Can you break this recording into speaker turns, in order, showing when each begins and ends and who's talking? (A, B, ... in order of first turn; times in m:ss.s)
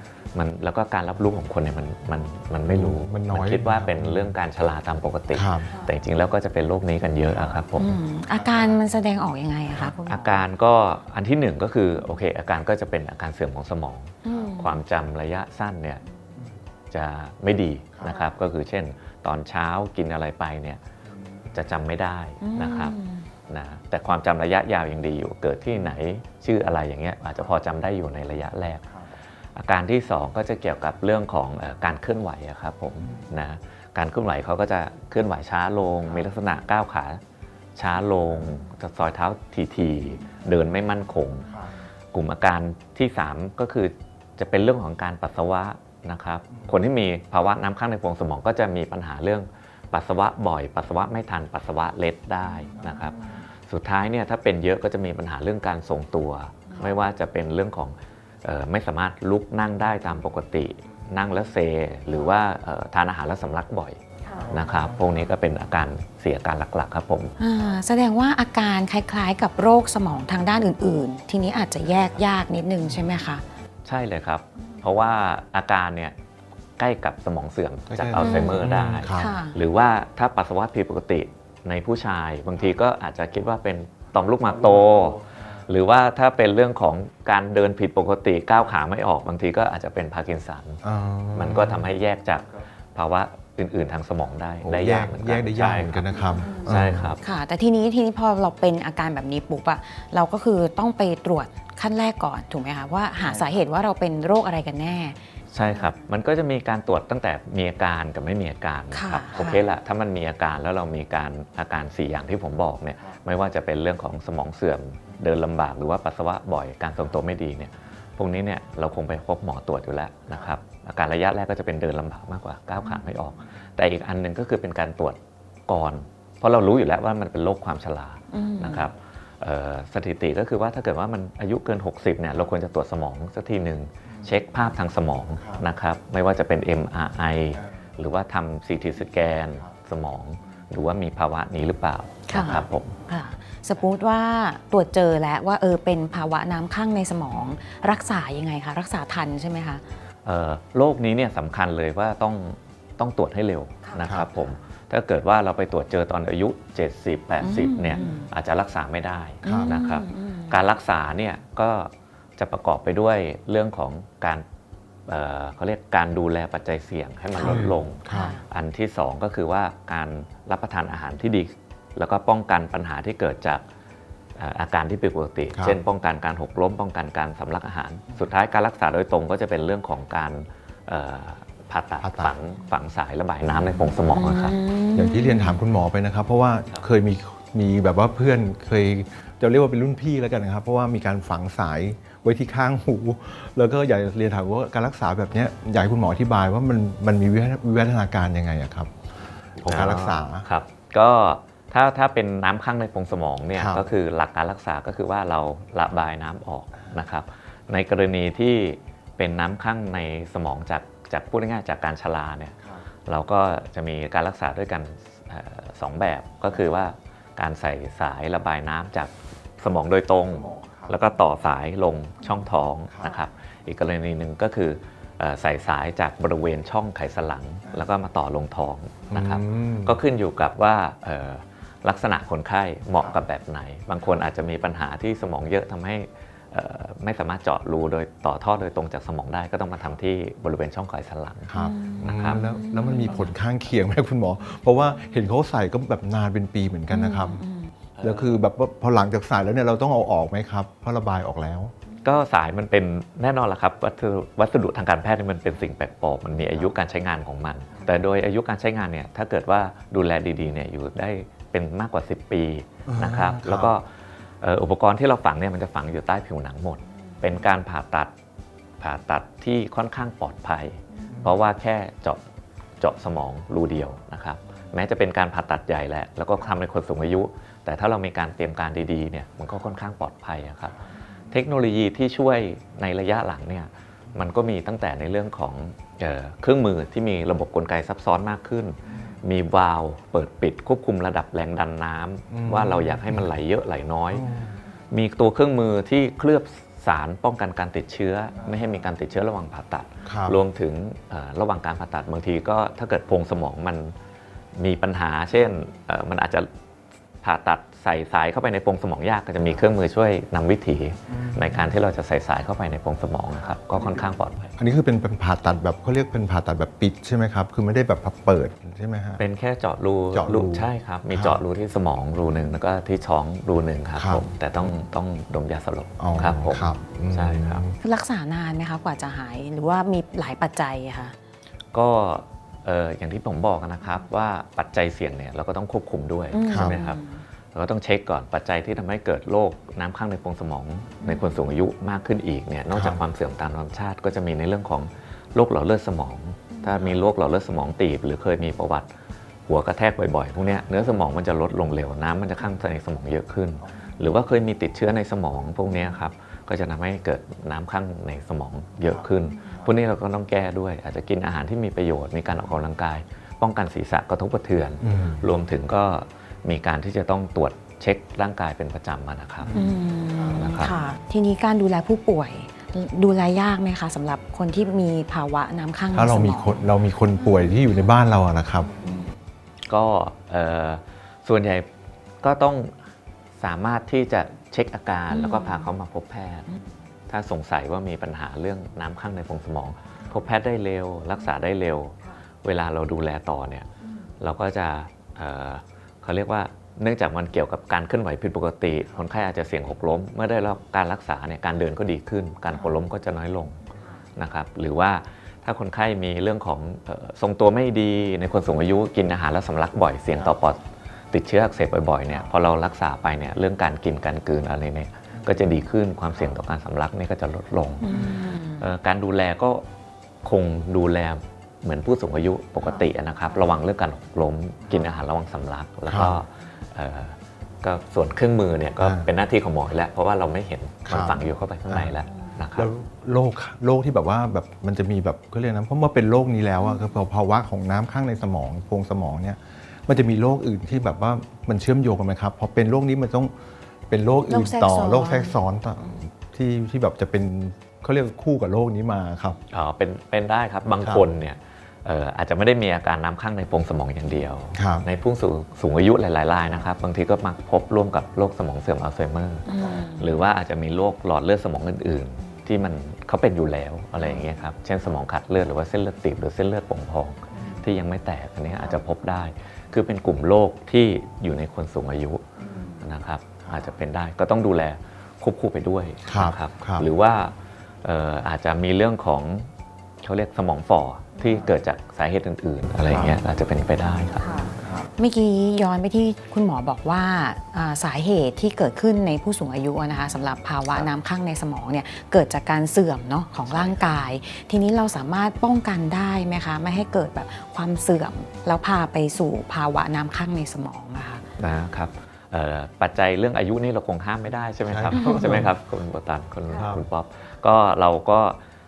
0:00.3-0:08.0 A
0:02.7-0:04.3 B
0:05.3-0:05.7 B
0:07.8-0:10.4 C
0:10.0-0:16.0 A
0:14.2-0:14.8 C
0:16.9-0:20.8 A
0:21.5-0:22.9 A
0:22.4-0:23.3 C
0:23.5-0:28.8 A
0:29.6-0:37.2 A
0:37.8-0:41.5 A
0:42.1-1:07.3 A
1:07.4-1:13.4 C
1:13.8-1:16.1 A
1:16.8-1:30.8 A
1:17.9-1:19.4 B
1:18.2-1:19.6 C
1:30.8-1:31.9 B
1:31.3-1:36.1 A
1:34.6-1:37.1 B
1:36.1-1:36.6 C
1:36.6-1:37.2 A
1:37.2-1:46.0 C
1:45.5-2:23.0 A
1:48.9-1:49.6 C
2:08.3-2:08.9 C
2:22.3-2:29.8 C
2:30.2-2:44.4 A
2:33.8-2:34.5 C
2:34.0-2:34.3 B
2:37.4-2:38.3 C
2:39.4-2:40.6 C
2:39.4-2:39.8 B
2:45.1-2:53.6 A
2:47.4-2:48.4 C
2:47.4-2:48.4 B
2:54.4-3:04.6 A
2:55.5-2:55.8 B
3:02.0-3:02.3 B
3:04.0-3:05.6 C
3:04.9-3:18.9 B
3:19.6-3:20.5 B
3:19.6-4:02.4 A
3:23.5-3:23.8 B
3:40.4-3:40.9 B
3:49.1-3:49.9 B
4:01.5-4:07.4 B
4:01.5-4:03.3 C
4:06.9-4:07.7 C
4:08.0-4:08.4 A
4:08.0-4:11.7 B
4:12.0-4:23.8 A
4:22.9-4:23.7 B
4:24.4-4:28.1 A
4:28.8-4:32.2 A
4:32.8-4:40.8 A
4:41.3-4:54.2 A
4:52.3-4:53.3 B
4:54.2-4:54.6 B
4:54.9-5:03.9 A
5:00.0-5:00.4 B
5:04.6-5:06.5 A
5:07.2-5:14.5 A
5:14.6-5:19.2 B
5:19.2-5:27.6 A
5:20.1-5:21.4 B
5:24.0-5:24.2 B
5:26.0-5:27.8 B
5:27.8-5:31.1 C
5:31.7-5:37.0 A
5:36.3-5:37.2 C
5:36.5-5:36.8 B
5:37.5-5:48.9 A
5:42.7-5:43.0 B
5:46.5-5:46.9 C
5:49.5-6:09.5 A
6:04.8-6:05.3 B
6:09.5-6:16.6 C
6:10.3-6:10.8 A
6:15.9-6:18.7 B
6:17.2-6:17.5 C
6:19.7-6:21.6 A
6:22.2-6:22.7 A
6:23.4-6:26.4 A
6:25.1-6:25.7 C
6:27.1-6:33.7 A
6:34.2-6:43.6 A
6:44.2-6:50.6 A
6:51.1-6:58.0 A
6:57.8-6:58.7 C
6:58.6-6:59.6 A
7:00.2-7:12.7 A
7:05.9-7:06.2 B
7:08.8-7:09.1 B
7:10.8-7:11.9 B
7:12.6-7:23.3 B
7:23.9-7:29.4 B
7:24.3-7:25.3 C
7:29.5-7:52.2 A
7:30.8-7:31.1 B
7:34.5-7:34.9 B
7:39.5-7:40.2 C
7:52.8-7:59.5 A
7:56.1-7:56.9 B
8:00.0-8:04.3 A
8:02.8-8:03.2 B
8:04.2-8:21.2 C
8:13.5-8:13.9 B
8:21.4-8:28.4 A
8:24.7-8:25.5 B
8:24.9-8:25.4 C
8:26.5-8:26.8 B